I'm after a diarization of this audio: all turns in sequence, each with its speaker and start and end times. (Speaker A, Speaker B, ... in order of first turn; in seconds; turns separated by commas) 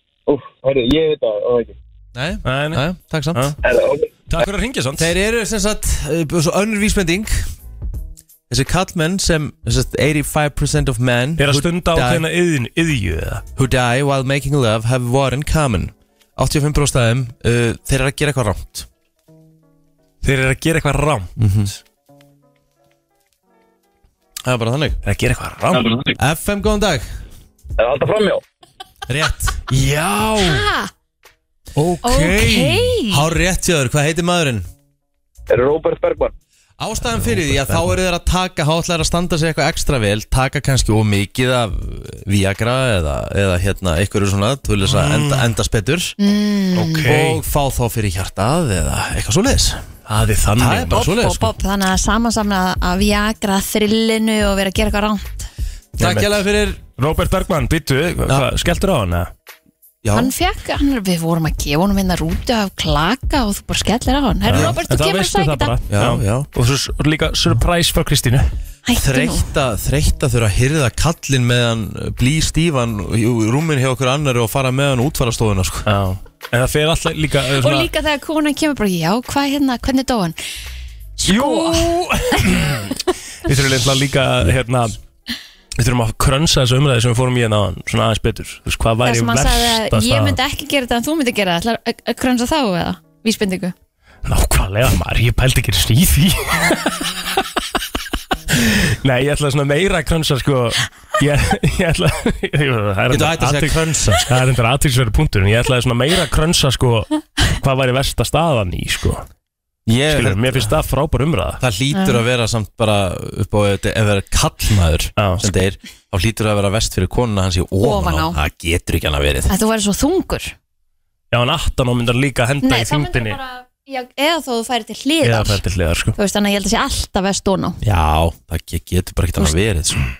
Speaker A: 0.3-1.7, Speaker B: 2.1-3.5, Speaker C: 2.4-3.6, Speaker A: 3.6-4.1, Speaker C: 4.3-5.1, Speaker B: 5.0-7.5, Speaker B: 8.5-12.2, Speaker C: 11.4-13.4, Speaker B: 13.6-18.9, Speaker C: 20.2-21.3, Speaker B: 21.4-21.7, Speaker B: 24.4-25.0, Speaker C: 25.0-26.0, Speaker A: 25.8-26.1, Speaker B: 26.1-27.1, Speaker A: 27.8-28.4, Speaker B: 29.1-29.7, Speaker C: 29.7-30.7, Speaker D: 30.4-30.9, Speaker C: 31.8-32.8, Speaker D: 32.0-33.2, Speaker B: 32.0-34.7, Speaker A: 35.5-36.3, Speaker B: 36.8-46.1, Speaker C: 37.1-37.9, Speaker C: 44.8-45.5, Speaker D: 46.2-47.1, Speaker C: 46.7-47.4, Speaker B: 47.0-49.8, Speaker C: 50.1-51.1, Speaker B: 50.5-51.5, Speaker D: 50.9-55.5, Speaker B: 56.0-56.8, Speaker C: 56.0-56.4, Speaker C: 57.0-59.3, Speaker B: 60.0-60.3, Speaker D: 60.1-65.7, Speaker C: 64.4-68.5, Speaker B: 64.5-64.8, Speaker B: 65.9-66.5, Speaker D: 68.9-69.5, Speaker B: 69.0-75.9, Speaker C: 75.8-77.9, Speaker D: 77.6-80.3, Speaker D: 81.2-82.8, Speaker C: 81.3-85.0, Speaker C: 85.8-90.4, Speaker D: 89.0-93.7, Speaker C: 94.2-97.1, Speaker C: 98.5-109.2, Speaker B: 103.1-104.2, Speaker B: 109.9-110.7, Speaker C: 110.1-111.6, Speaker B: 111.6-119.5, Speaker D: 111.9-112.2, Speaker C: 115.2-115.5, Speaker D: 117.8-118.4, Speaker D: 119.5-120.5, Speaker C: 121.3-123.4, Speaker D: 122.6-125.6, Speaker C: 125.2-126.2, Speaker D: 126.2-127.8, Speaker B: 127.8-130.1